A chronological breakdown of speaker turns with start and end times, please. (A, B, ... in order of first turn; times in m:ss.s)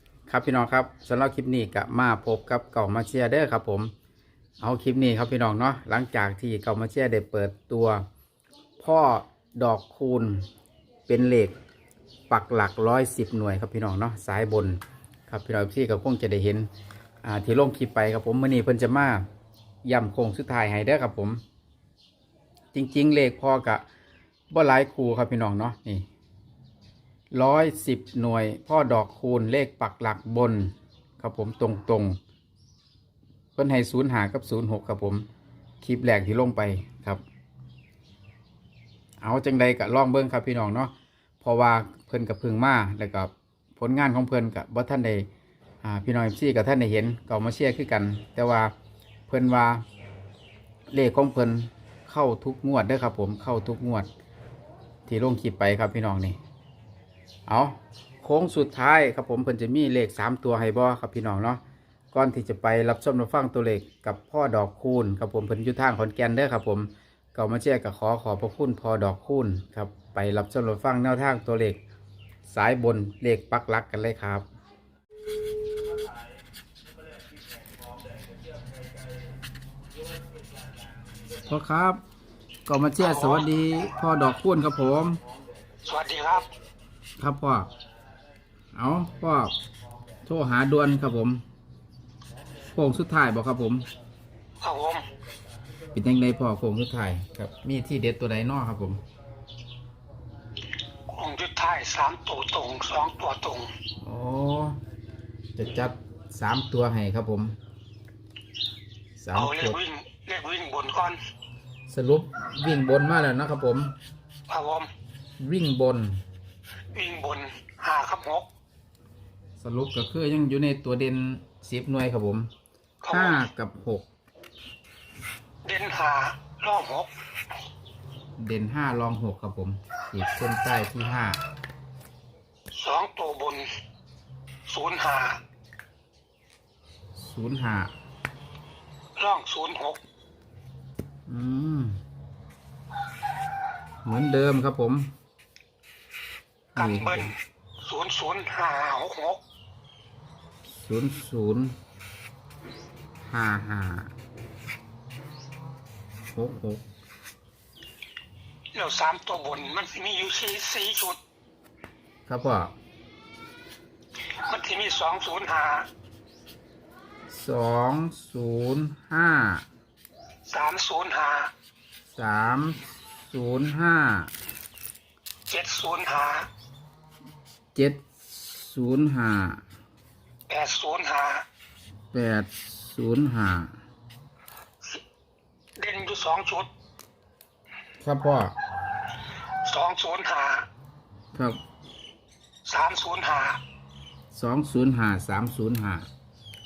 0:00.3-0:03.9 A
0:04.6-0:08.0 A
0:08.8-0:10.5 A
0:11.1-0:11.5 A
0:12.3-0:16.7 A
0:17.2-0:19.2 A
0:19.8-0:21.4 A
0:22.7-0:23.8 A
0:24.5-0:26.1 A
0:27.3-0:32.2 A
0:33.6-0:35.3 A
0:35.8-0:37.2 A
0:39.2-0:45.3 A
0:45.8-0:48.7 A
0:49.3-0:49.8 A
0:50.9-0:54.1 A
0:55.1-0:56.4 A
0:57.5-1:01.6 A
1:02.1-1:11.8 A
1:12.5-1:14.4 A
1:21.4-1:22.0 A
1:22.7-1:25.2 A
1:23.0-1:23.5 B
1:25.8-1:26.5 B
1:27.2-1:27.7 A
1:28.7-1:29.6 A
1:30.2-1:31.4 A
1:32.7-1:33.9 A
1:34.6-1:35.1 B
1:35.9-1:39.0 A
1:41.1-1:43.7 B
1:44.0-1:44.8 A
1:45.6-1:47.6 A
1:49.2-1:49.8 A
1:49.3-1:51.2 B
1:51.9-1:54.0 A
1:54.5-1:54.9 B
1:55.4-1:56.2 A
1:56.9-1:58.5 B
1:59.6-2:02.5 A
2:03.0-2:03.4 B
2:03.1-2:04.1 A
2:05.6-2:07.1 B
2:08.4-2:11.4 A
2:12.7-2:13.7 B
2:14.7-2:15.4 B
2:17.2-2:17.9 A
2:19.2-2:20.0 B
2:21.3-2:22.0 A
2:24.0-2:25.1 A
2:26.7-2:27.3 A
2:26.8-2:29.4 B
2:30.7-2:31.8 A
2:33.2-2:34.1 A
2:36.3-2:36.8 A
2:38.7-2:41.2 B
2:42.3-2:42.7 A
2:44.3-2:45.9 B
2:47.3-2:49.6 A
2:50.4-2:51.5 B
2:52.1-2:54.3 A
2:55.5-2:56.5 B
2:57.7-2:59.6 A
3:00.5-3:01.4 B
3:02.1-3:03.8 A
3:05.8-3:06.7 B
3:08.0-3:08.6 A
3:09.6-3:10.7 B
3:11.3-3:11.6 A
3:12.6-3:13.6 B
3:14.3-3:16.1 A